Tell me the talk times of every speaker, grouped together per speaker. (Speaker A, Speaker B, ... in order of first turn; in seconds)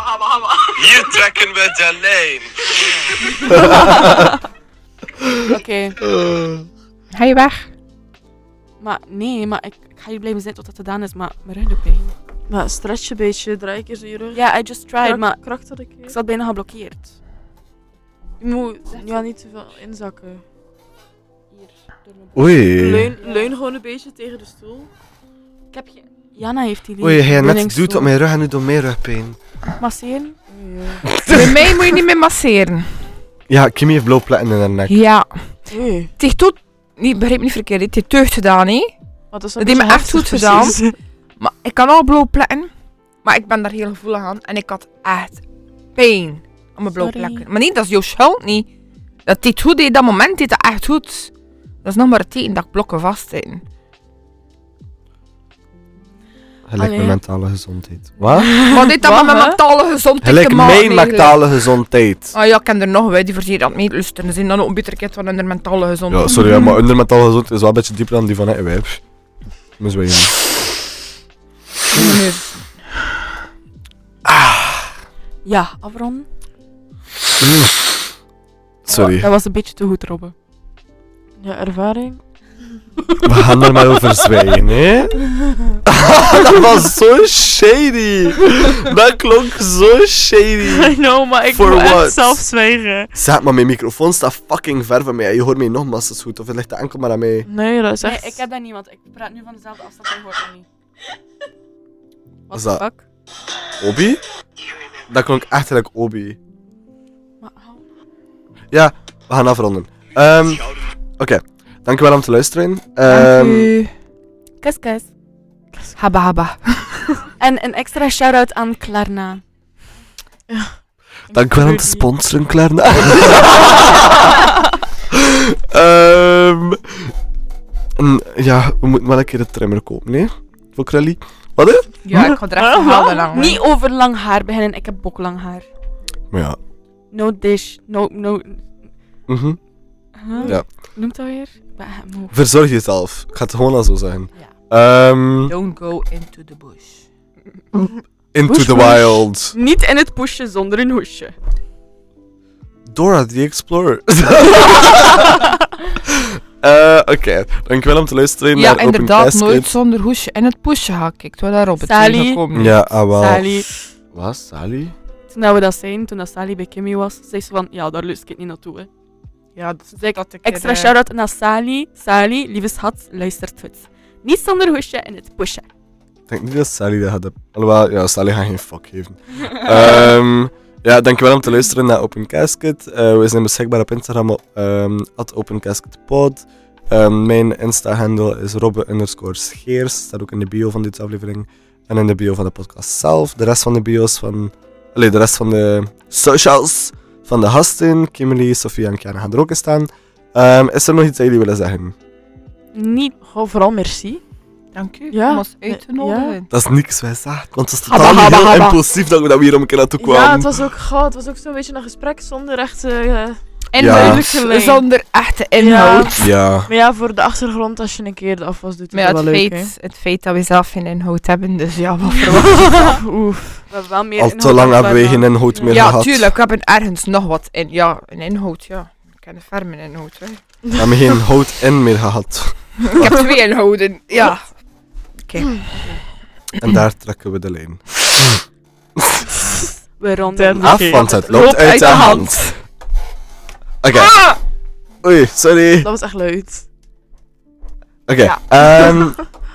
Speaker A: 0.5-4.4, 6.0-6.7, 22.4-23.1, 27.0-29.4, 31.1-31.9, 33.5-35.0, 56.7-58.7, 60.2-62.3, 66.1-69.0, 69.8-70.4, 74.3-74.9, 77.4-77.7, 78.8-79.3, 83.2-90.9, 91.5-92.4, 93.2-97.5, 102.5-102.8, 103.8-104.2, 105.1-106.4, 108.7-110.7, 111.2-113.7, 121.3-124.4, 125.1-127.1, 128.0-131.9, 136.3-136.6, 139.3-139.6, 142.3-145.6, 147.7-149.5, 152.9-155.5, 156.1-159.7, 162.5-163.6, 164.1-164.9, 176.3-201.9, 206.5-210.6, 213.8-214.2, 216.2-216.7, 224.2-226.3, 230.8-233.2, 236.6-238.4, 238.9-239.3, 240.6-242.5, 243.8-244.2, 245.0-245.9, 248.1-249.2
Speaker B: 5.5-6.0, 8.8-12.1, 14.3-17.1, 18.9-19.1, 25.7-28.1, 29.8-30.4, 47.0-47.4, 56.8-57.1, 75.4-76.3, 78.9-80.3, 98.0-100.7, 102.5-103.0, 107.4-107.8, 114.6-115.1, 117.4-119.4, 121.5-122.0, 132.6-135.7, 137.1-138.6, 140.2-142.3, 148.7-149.0, 149.5-151.3, 161.8-162.4, 163.2-163.7, 165.3-168.9, 169.9-175.7, 202.7-203.2, 222.4-223.0, 223.7-226.0, 240.0-242.2
Speaker C: 7.2-7.7, 31.3-32.9, 34.9-35.3, 36.2-38.9, 39.6-42.7, 43.2-45.4, 46.0-48.7, 49.3-51.3, 51.8-53.6, 58.5-61.4, 62.3-66.8, 71.9-72.6, 113.1-113.9, 116.0-117.2, 132.1-133.6, 145.5-147.0, 158.6-162.8, 169.6-170.9, 204.7-206.5, 207.9-208.8, 213.7-216.3, 218.9-223.0, 225.7-230.4, 232.8-234.4, 235.3-235.7, 241.3-242.6
Speaker D: 12.5-14.4, 15.0-16.1, 18.4-20.4, 22.7-24.9, 30.5-31.0, 35.7-36.1, 39.3-40.9, 58.7-59.6, 81.4-82.2, 90.7-93.2, 97.5-98.4, 120.5-120.8, 121.6-121.9, 132.6-133.1, 140.3-140.6, 148.5-149.0, 203.3-204.2, 205.1-206.4, 210.0-214.8, 215.6-216.1, 216.7-219.7, 222.6-223.6, 240.3-241.7, 245.8-246.7